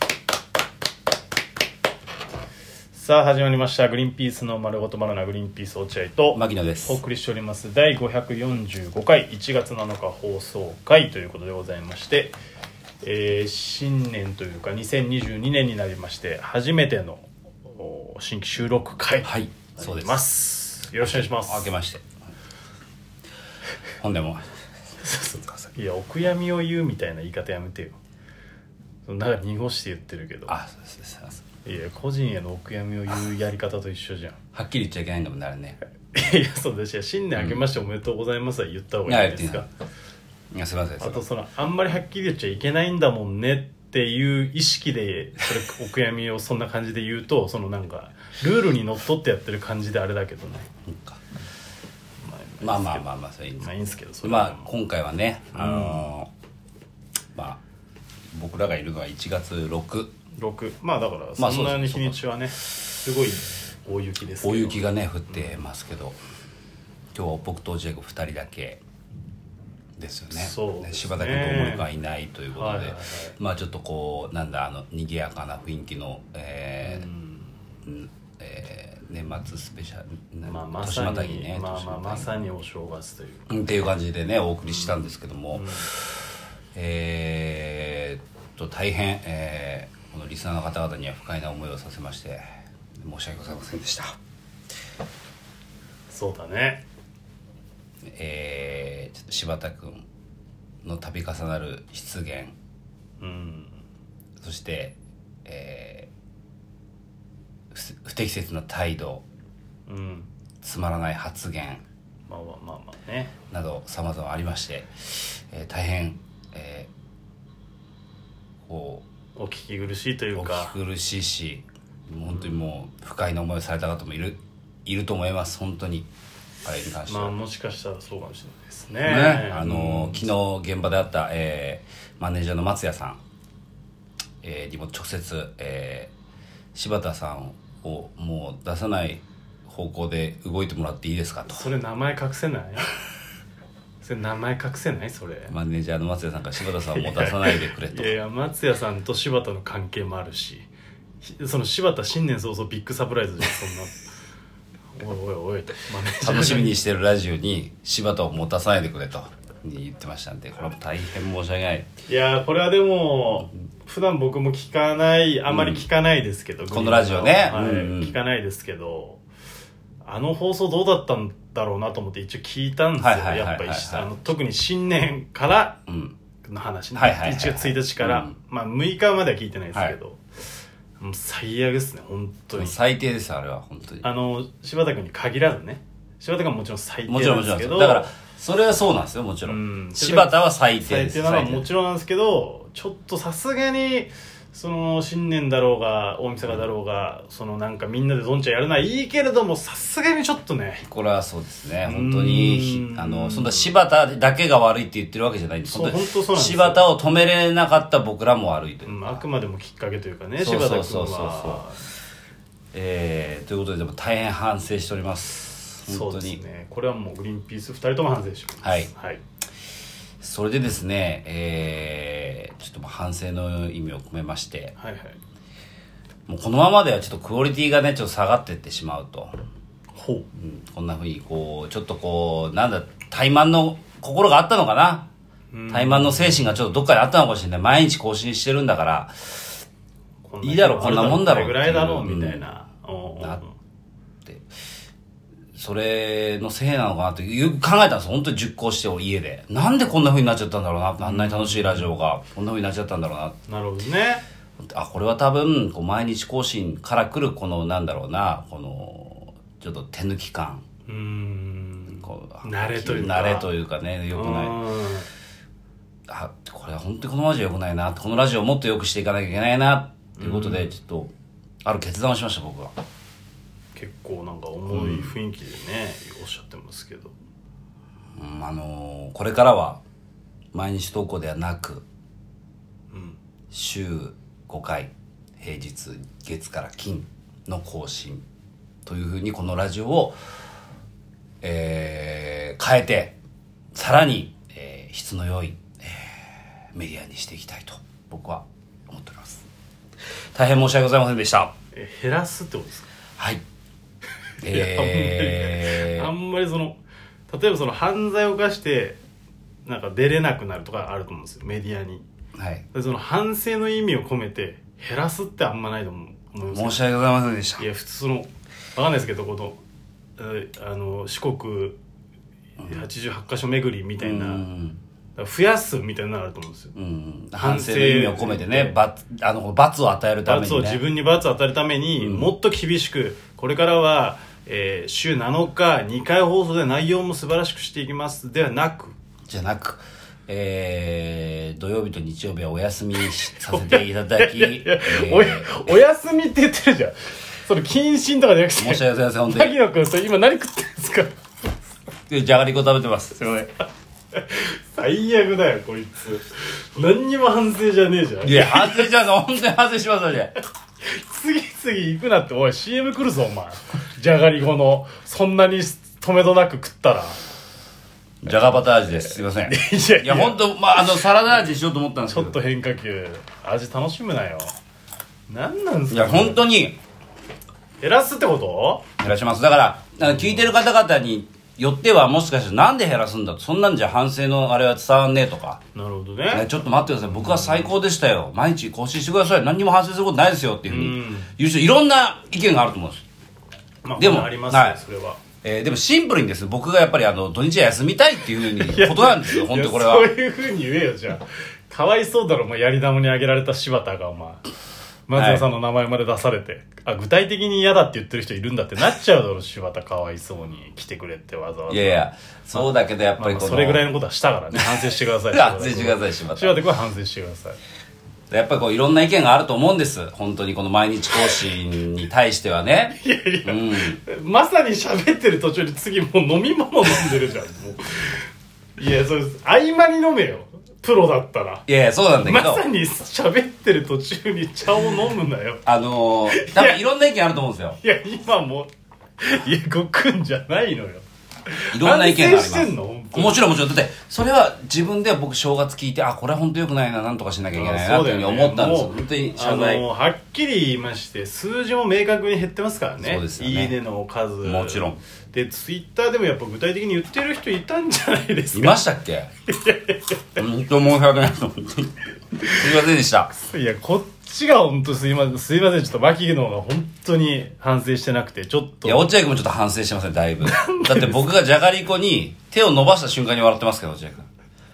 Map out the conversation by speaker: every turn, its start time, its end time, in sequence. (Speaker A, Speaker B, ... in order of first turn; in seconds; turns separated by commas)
Speaker A: 2.9-12.3, Speaker B: 6.3-7.0, Speaker A: 13.0-21.7, Speaker B: 19.2-20.2, Speaker B: 21.0-22.0, Speaker B: 24.0-24.4, Speaker A: 25.0-28.0, Speaker A: 29.1-30.6, Speaker B: 30.5-31.4, Speaker A: 31.6-34.4, Speaker B: 34.5-35.8, Speaker A: 36.1-39.7, Speaker B: 37.4-37.6, Speaker B: 39.1-39.7, Speaker B: 40.5-41.2, Speaker A: 41.0-50.7, Speaker B: 50.9-51.2, Speaker A: 52.2-53.1, Speaker B: 52.6-53.7, Speaker A: 53.6-54.7, Speaker B: 54.2-56.3, Speaker A: 55.5-56.1, Speaker B: 57.4-57.6, Speaker B: 58.3-60.1, Speaker A: 60.4-65.5, Speaker B: 61.4-62.2, Speaker B: 64.4-66.2, Speaker B: 67.1-68.8, Speaker B: 70.0-77.1, Speaker A: 70.3-71.9, Speaker A: 72.5-73.4, Speaker A: 76.8-77.5, Speaker B: 77.8-82.4, Speaker A: 80.5-83.7, Speaker B: 83.5-92.4, Speaker A: 84.6-85.0, Speaker A: 85.5-85.9, Speaker B: 93.0-94.2, Speaker A: 96.1-96.8, Speaker B: 98.1-100.1, Speaker B: 100.8-102.5, Speaker A: 103.2-103.8, Speaker B: 104.4-106.1, Speaker B: 107.7-109.2, Speaker A: 109.9-110.3, Speaker B: 110.6-111.8, Speaker A: 112.3-113.3, Speaker B: 113.5-116.9, Speaker B: 118.7-119.0, Speaker A: 119.4-120.7, Speaker B: 120.4-126.1, Speaker A: 122.3-122.6, Speaker B: 126.6-127.3, Speaker A: 127.1-130.3, Speaker B: 129.0-133.2, Speaker B: 134.4-136.1, Speaker B: 136.8-141.7, Speaker A: 141.5-142.9, Speaker A: 144.0-145.5, Speaker B: 145.5-148.1, Speaker A: 146.8-150.7, Speaker A: 151.2-154.0, Speaker A: 155.0-156.7, Speaker B: 156.2-161.9, Speaker A: 162.1-169.2, Speaker B: 165.5-165.8, Speaker B: 166.7-168.2, Speaker A: 170.1-175.8, Speaker B: 173.0-174.1, Speaker B: 175.9-176.2, Speaker A: 176.4-180.2, Speaker B: 176.9-178.3, Speaker A: 181.0-182.7, Speaker B: 182.6-184.1, Speaker A: 184.0-188.1, Speaker B: 187.1-191.7, Speaker A: 189.5-200.9, Speaker B: 200.8-209.1, Speaker A: 201.8-203.8, Speaker A: 205.7-206.8, Speaker A: 208.9-211.8, Speaker B: 210.4-211.7, Speaker B: 212.7-216.4, Speaker A: 215.9-219.2, Speaker B: 218.6-218.9, Speaker B: 220.2-224.7, Speaker A: 224.8-225.2, Speaker B: 226.3-229.3, Speaker A: 229.9-230.3, Speaker B: 230.4-235.1, Speaker A: 235.5-236.6, Speaker B: 235.7-239.6, Speaker A: 240.3-243.6, Speaker B: 240.4-242.5, Speaker B: 245.6-253.4, Speaker A: 251.0-251.9, Speaker A: 253.5-254.2, Speaker B: 254.6-260.6, Speaker A: 260.9-263.5, Speaker B: 262.0-264.6, Speaker A: 264.1-265.1, Speaker B: 266.1-271.1, Speaker A: 270.2-270.8, Speaker B: 271.6-272.7, Speaker A: 273.8-277.1, Speaker B: 274.7-275.1, Speaker B: 278.1-279.8, Speaker B: 280.5-281.8, Speaker A: 282.9-283.2, Speaker B: 283.5-288.2, Speaker B: 288.9-290.2, Speaker B: 291.4-293.1, Speaker B: 293.7-299.4, Speaker B: 300.4-301.5, Speaker A: 301.7-302.9, Speaker A: 304.4-309.0, Speaker B: 304.4-306.1, Speaker A: 309.6-312.1, Speaker B: 312.4-312.6, Speaker A: 312.7-316.8, Speaker B: 316.5-317.7, Speaker A: 317.6-319.6, Speaker A: 320.2-321.8, Speaker A: 322.6-324.4, Speaker B: 324.0-324.8, Speaker A: 325.2-326.7, Speaker B: 326.8-330.8, Speaker A: 327.4-328.7, Speaker A: 330.3-338.9, Speaker B: 332.0-332.3, Speaker B: 339.3-345.6, Speaker A: 343.4-351.5, Speaker B: 348.6-349.5, Speaker B: 352.1-353.2, Speaker A: 353.2-353.5, Speaker A: 354.1-358.9, Speaker B: 358.2-360.3, Speaker A: 360.8-367.2, Speaker B: 368.2-372.4, Speaker A: 369.4-371.0, Speaker A: 372.1-374.5, Speaker A: 375.3-376.4, Speaker B: 375.9-376.8, Speaker A: 377.8-378.8, Speaker B: 379.0-385.6, Speaker A: 380.1-380.5, Speaker A: 385.7-387.7, Speaker B: 386.3-393.0, Speaker A: 390.7-391.3, Speaker A: 393.9-395.2, Speaker B: 394.0-394.8, Speaker B: 395.4-400.1, Speaker A: 398.6-404.4, Speaker A: 405.1-417.6, Speaker B: 405.1-405.4, Speaker B: 411.7-413.9, Speaker B: 414.5-416.6, Speaker B: 418.3-424.0, Speaker A: 423.0-428.3, Speaker A: 428.8-431.6, Speaker B: 431.7-432.6, Speaker A: 432.2-435.6, Speaker B: 435.6-437.8, Speaker A: 436.3-436.8, Speaker A: 437.8-443.4, Speaker B: 441.7-449.9, Speaker A: 447.5-458.8, Speaker B: 453.0-453.8, Speaker B: 454.4-455.0, Speaker B: 458.5-459.3, Speaker A: 459.5-460.4, Speaker B: 460.4-463.3, Speaker A: 463.3-469.1, Speaker B: 468.9-474.3, Speaker A: 470.4-471.2